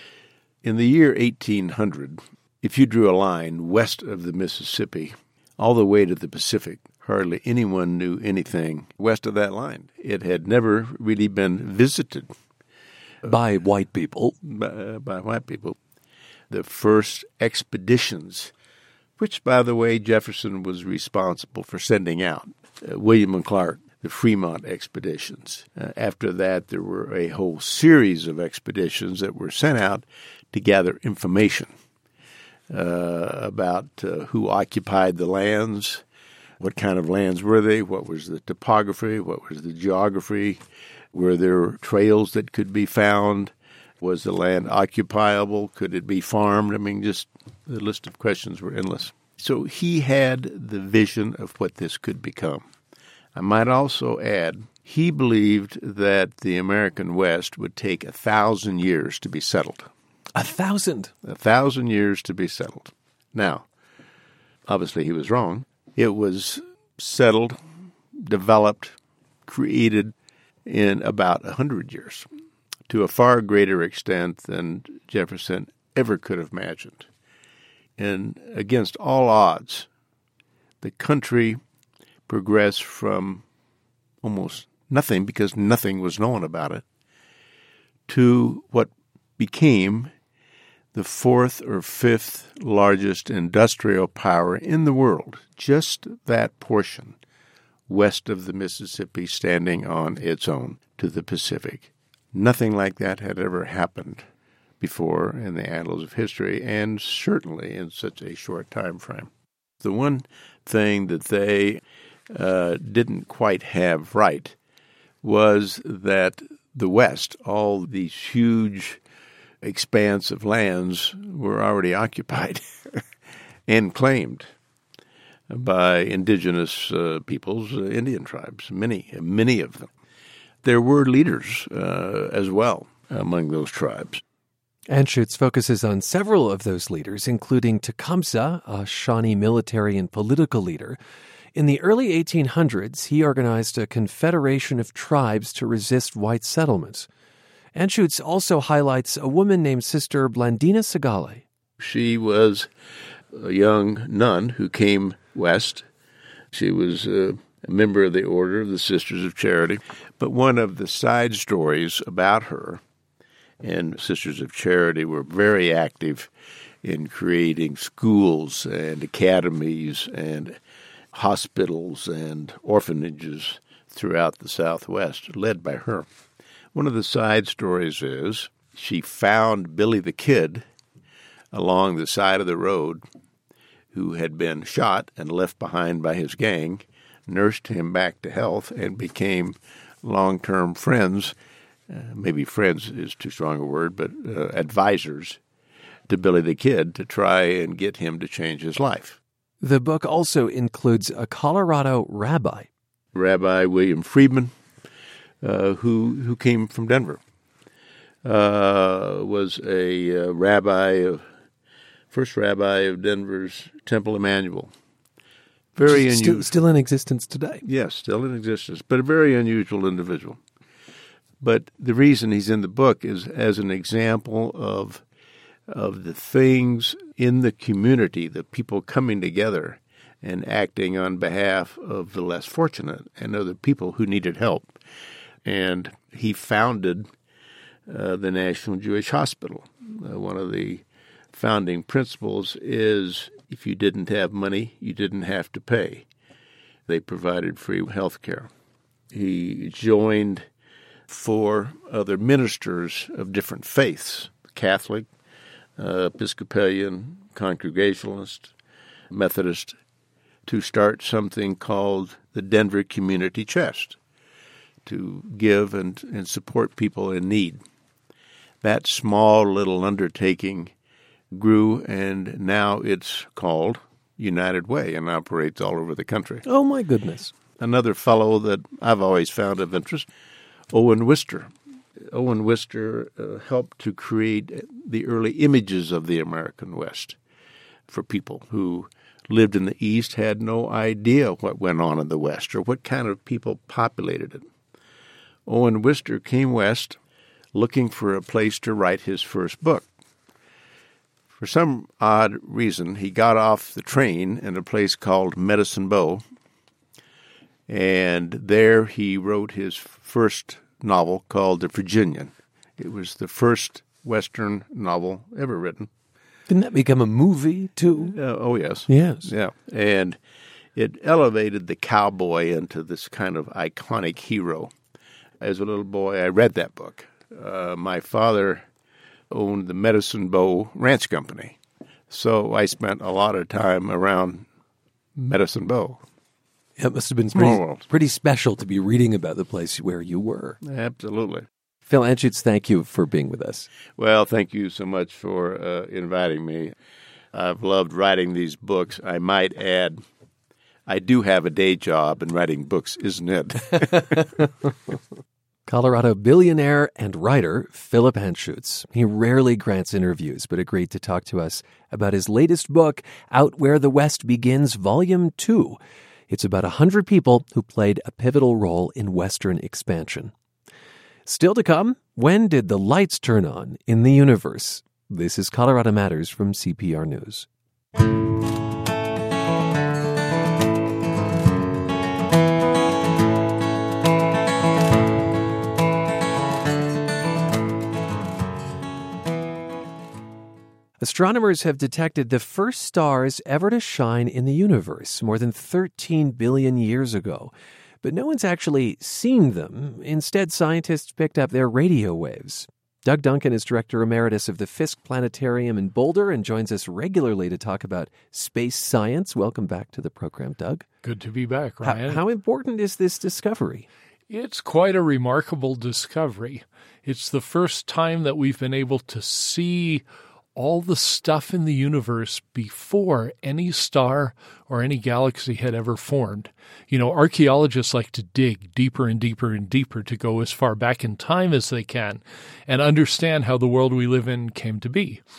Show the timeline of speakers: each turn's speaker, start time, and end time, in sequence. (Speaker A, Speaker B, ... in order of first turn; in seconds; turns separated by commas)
Speaker A: 0.6-12.3, Speaker B: 13.3-14.4, Speaker A: 14.4-15.8, Speaker A: 16.5-18.5, Speaker A: 19.2-31.7, Speaker A: 32.7-36.0, Speaker A: 36.6-40.6, Speaker A: 41.1-52.6, Speaker A: 53.4-59.9, Speaker B: 60.4-61.1, Speaker A: 61.2-63.7, Speaker A: 64.7-67.6, Speaker A: 68.2-69.0, Speaker A: 69.5-70.1, Speaker A: 70.7-72.3, Speaker A: 72.9-77.1, Speaker A: 78.0-79.9, Speaker A: 80.8-81.6, Speaker A: 82.3-83.4, Speaker A: 84.2-86.8, Speaker A: 88.1-90.1, Speaker A: 90.9-97.2, Speaker A: 97.9-104.3, Speaker A: 104.8-109.3, Speaker A: 109.8-114.5, Speaker A: 115.2-119.0, Speaker A: 119.6-123.0, Speaker A: 123.7-124.5, Speaker A: 125.5-129.9, Speaker A: 130.6-134.2, Speaker B: 134.9-141.0, Speaker B: 141.6-147.1, Speaker B: 147.8-151.4, Speaker A: 151.8-152.7, Speaker A: 153.3-155.9, Speaker A: 156.5-162.8, Speaker A: 163.6-166.3, Speaker A: 166.8-170.6, Speaker A: 171.1-176.1, Speaker A: 176.7-180.7, Speaker A: 181.5-183.0, Speaker A: 183.9-191.3, Speaker A: 191.9-195.4, Speaker A: 196.1-199.2, Speaker B: 199.6-202.7, Speaker A: 203.1-204.6, Speaker A: 205.4-207.2, Speaker A: 208.2-211.3, Speaker A: 212.1-214.7, Speaker A: 215.8-216.5, Speaker B: 215.9-217.7, Speaker A: 217.7-220.4, Speaker A: 221.4-225.0, Speaker A: 225.7-234.7, Speaker A: 235.4-237.1, Speaker A: 237.9-246.1, Speaker A: 246.9-248.5, Speaker A: 249.1-250.5, Speaker A: 251.1-255.1, Speaker A: 255.8-258.5, Speaker A: 259.1-259.8, Speaker A: 260.5-264.0, Speaker A: 264.9-267.6, Speaker A: 268.6-270.7, Speaker A: 271.3-276.4, Speaker B: 276.4-277.3, Speaker A: 277.6-280.1, Speaker A: 280.7-281.5, Speaker A: 282.1-287.2, Speaker A: 287.9-294.5, Speaker A: 295.5-297.0, Speaker A: 297.5-299.9, Speaker A: 301.4-306.2, Speaker A: 307.7-315.9, Speaker B: 316.5-318.2, Speaker A: 318.1-320.2, Speaker B: 318.9-319.3, Speaker A: 320.8-324.7, Speaker A: 325.4-328.6, Speaker A: 329.3-331.6, Speaker A: 332.1-334.5, Speaker A: 335.2-336.0, Speaker B: 336.8-340.6, Speaker A: 337.3-337.9, Speaker A: 340.6-341.5, Speaker B: 341.9-343.7, Speaker A: 344.0-346.7, Speaker A: 347.3-350.0, Speaker A: 350.9-354.4, Speaker B: 355.7-365.8, Speaker B: 366.3-370.3, Speaker B: 371.3-377.5, Speaker B: 391.0-410.9, Speaker C: 411.0-412.2, Speaker B: 411.8-413.9, Speaker C: 414.3-435.2